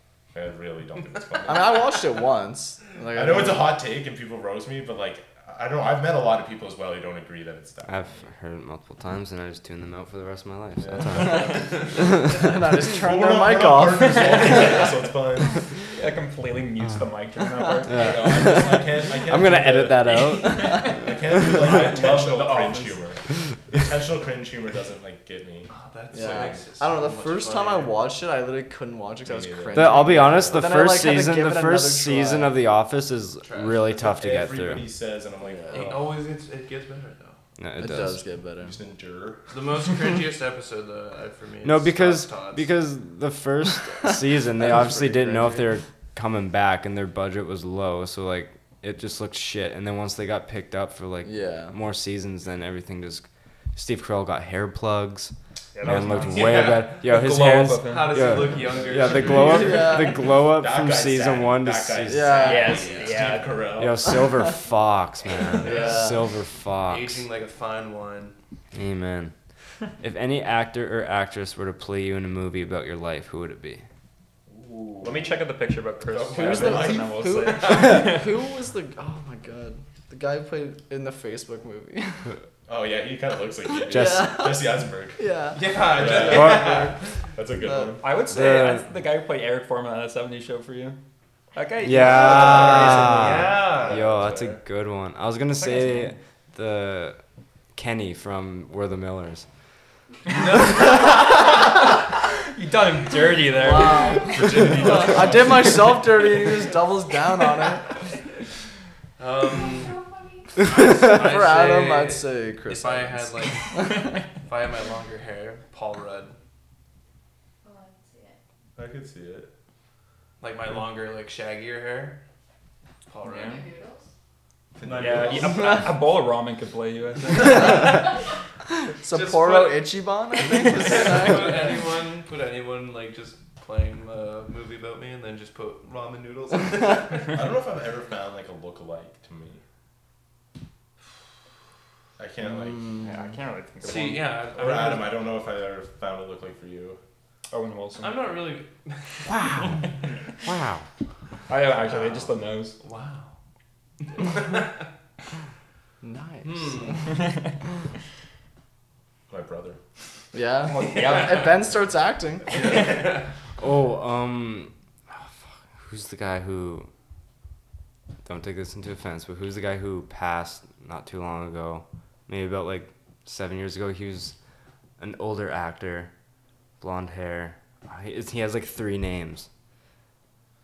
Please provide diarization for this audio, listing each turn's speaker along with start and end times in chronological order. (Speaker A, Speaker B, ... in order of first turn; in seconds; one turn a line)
Speaker A: 0.3-1.9
Speaker B: 1.5-3.7
Speaker A: 3.1-8.3
Speaker C: 7.9-12.4
Speaker A: 10.8-15.8
Speaker B: 11.2-11.5
Speaker B: 12.2-14.8
Speaker D: 14.2-14.8
Speaker D: 15.9-18.3
Speaker C: 17.9-21.9
Speaker A: 17.9-25.7
Speaker B: 20.4-21.0
Speaker D: 20.6-20.9
Speaker D: 21.7-22.9
Speaker E: 25.7-28.0
Speaker B: 26.1-32.6
Speaker A: 26.2-26.6
Speaker A: 29.3-30.8
Speaker C: 29.7-34.9
Speaker E: 33.4-33.9
Speaker A: 34.0-36.2
Speaker B: 35.4-36.0
Speaker E: 35.7-37.4
Speaker C: 37.6-38.2
Speaker B: 37.8-38.8
Speaker A: 37.9-39.5
Speaker E: 39.5-42.7
Speaker C: 41.6-62.5
Speaker B: 44.0-45.7
Speaker B: 51.2-51.8
Speaker D: 55.8-58.6
Speaker E: 56.2-57.1
Speaker E: 57.7-60.1
Speaker A: 58.7-59.6
Speaker B: 59.5-60.2
Speaker A: 60.4-64.0
Speaker B: 62.1-62.9
Speaker D: 62.4-63.7
Speaker E: 62.7-63.4
Speaker C: 63.8-67.2
Speaker B: 65.6-66.2
Speaker E: 65.7-66.1
Speaker E: 66.8-68.3
Speaker C: 68.7-69.3
Speaker C: 70.0-73.8
Speaker A: 74.5-75.4
Speaker D: 75.0-78.3
Speaker A: 76.0-77.9
Speaker B: 76.3-82.3
Speaker A: 82.7-88.3
Speaker C: 83.9-84.4
Speaker B: 83.9-86.8
Speaker E: 85.5-86.9
Speaker C: 86.3-86.7
Speaker B: 87.6-88.0
Speaker D: 88.0-91.0
Speaker C: 88.3-88.9
Speaker D: 91.5-93.1
Speaker C: 91.8-97.2
Speaker A: 92.1-94.6
Speaker E: 92.2-94.3
Speaker D: 95.5-96.2
Speaker C: 97.8-99.5
Speaker D: 100.3-104.7
Speaker B: 103.5-107.9
Speaker E: 104.4-105.3
Speaker A: 104.4-105.7
Speaker E: 109.2-110.0
Speaker F: 109.4-110.9
Speaker E: 110.6-113.8
Speaker B: 110.6-114.0
Speaker E: 114.4-116.3
Speaker F: 117.6-118.4
Speaker A: 118.8-119.5
Speaker E: 120.4-122.2
Speaker E: 123.1-123.6
Speaker D: 123.2-123.6
Speaker F: 123.4-124.1
Speaker A: 124.8-125.9
Speaker E: 124.8-125.5
Speaker D: 125.0-128.1
Speaker B: 125.5-125.9
Speaker B: 127.5-128.0
Speaker B: 128.8-131.6
Speaker E: 129.1-137.3
Speaker A: 137.2-139.6
Speaker A: 142.2-143.1
Speaker B: 142.5-143.1
Speaker D: 143.0-144.5
Speaker E: 143.8-145.2
Speaker A: 144.5-147.0
Speaker D: 147.5-148.3
Speaker E: 148.0-149.3
Speaker C: 149.3-149.8
Speaker C: 150.4-150.8
Speaker D: 151.5-152.8
Speaker A: 151.8-152.3
Speaker E: 152.8-153.3
Speaker E: 154.1-154.8
Speaker B: 156.0-157.2
Speaker E: 156.4-157.2
Speaker D: 157.1-157.5
Speaker A: 159.3-159.8
Speaker B: 160.3-162.7
Speaker D: 160.7-161.6
Speaker A: 162.5-162.9
Speaker C: 163.6-166.9
Speaker C: 168.2-174.3
Speaker C: 175.0-176.1
Speaker C: 176.8-179.5